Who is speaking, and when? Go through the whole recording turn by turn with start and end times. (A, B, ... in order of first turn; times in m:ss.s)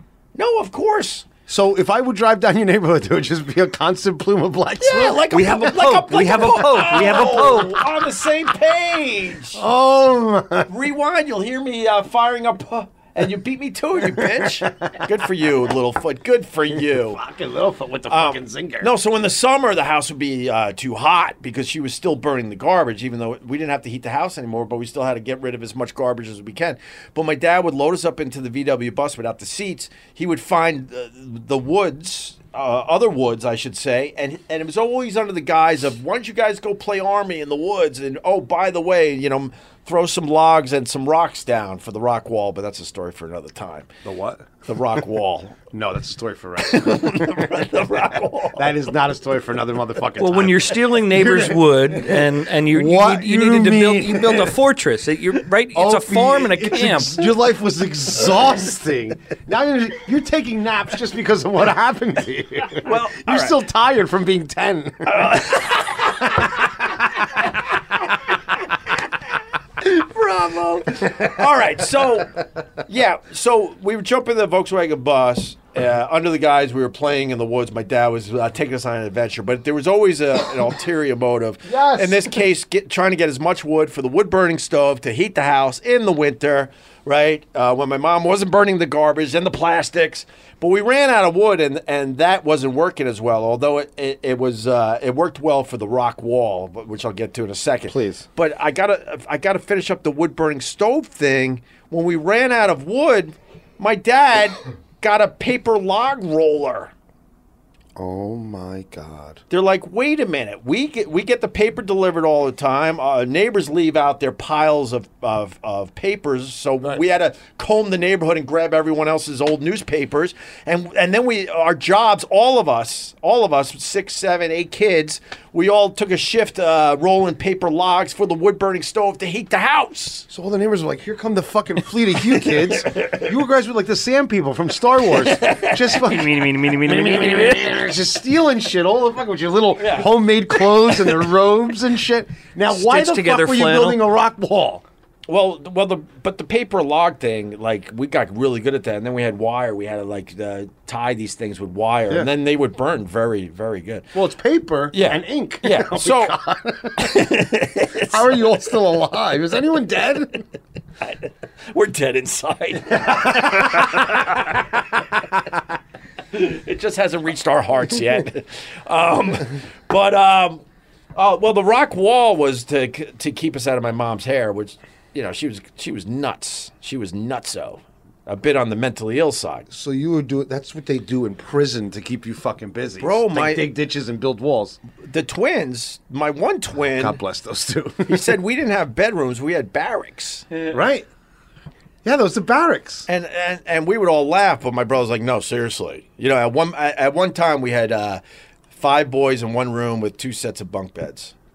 0:00.4-0:01.3 A
0:01.5-0:07.8 B
0:04.8-0:09.6 A
0:05.3-0:07.8 C
0:09.6-0:10.7 B
0:10.7-0:17.2 A
0:14.0-0:15.0 B
0:16.8-0:18.9 B
0:18.1-0:43.9 A
0:44.0-0:44.5 B
0:44.6-0:45.6 A
0:45.7-0:54.6 B
0:46.6-0:48.8 A
0:50.2-0:57.3 C
0:55.7-1:05.7 B
1:02.8-1:03.6 A
1:05.0-1:06.7 A
1:09.8-1:46.9 A
1:21.6-1:22.4 B
1:37.9-1:38.3 B
1:48.0-1:49.4 B
1:49.5-2:10.3 A
2:10.3-2:24.8 B
2:12.4-2:13.3 A
2:15.1-2:16.0 A
2:16.0-2:17.7 C
2:19.8-2:21.2 A
2:22.7-2:24.0 C
2:25.3-2:34.1 A
2:34.1-2:40.4 B
2:34.9-2:36.3 A
2:37.0-2:38.6 A
2:41.7-2:44.6 A
2:43.0-2:44.0 B
2:46.3-2:50.6 A
2:51.2-2:59.7 A
2:59.7-3:04.8 B
3:03.0-3:03.7 A
3:05.0-3:07.2 A
3:06.8-3:08.4 B
3:08.1-3:10.5 A
3:10.6-3:11.1 B
3:12.0-3:13.1 B
3:13.1-3:18.2 A
3:18.7-3:21.3 A